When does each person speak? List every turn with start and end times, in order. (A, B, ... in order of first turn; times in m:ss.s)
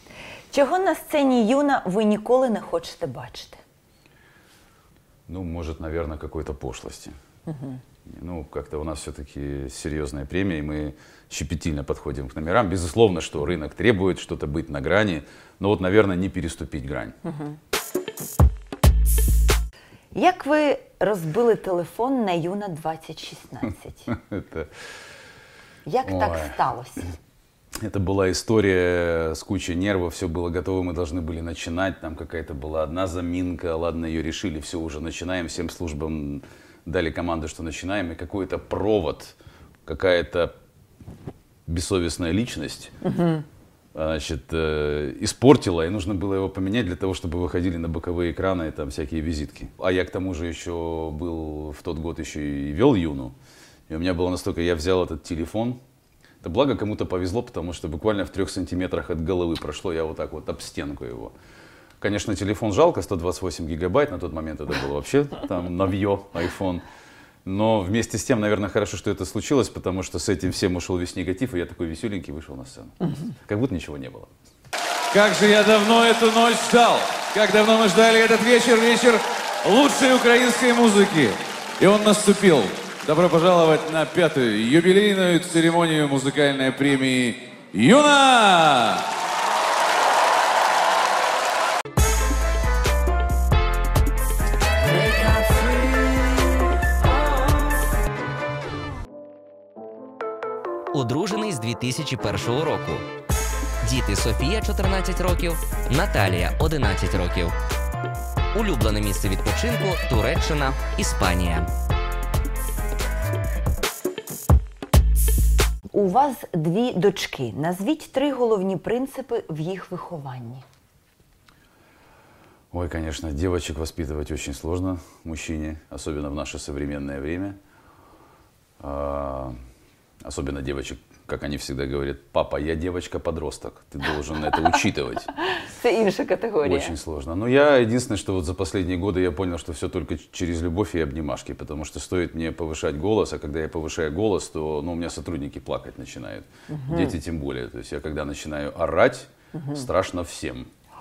0:00.5-0:03.6 A
0:05.3-0:07.2 B
0:07.5-0:07.8 A
0:08.0-0:17.1 B
0:17.2-0:17.6 A
0:20.1-0:24.1 A
0:24.1-0:24.7 B
0:25.8-0:27.1 A
0:26.0-0:26.6 B
0:27.8-0:40.5 B
0:41.6-0:42.9 B
0:43.0-0:43.4 A
0:43.9-0:53.4 B
0:53.9-0:55.8 B
0:56.4-1:01.3 B
1:02.0-1:06.8 B
1:07.4-1:14.3 B
1:15.1-1:29.1 C
1:40.9-1:43.1 D
1:43.8-1:47.5 D
1:48.5-1:51.7 D
1:55.9-2:00.6 A
2:02.7-2:07.6 B
2:08.8-2:09.5 B
2:10.2-2:15.3 B
2:15.5-2:16.9 A
2:16.6-2:30.7 B
2:26.7-2:27.1 A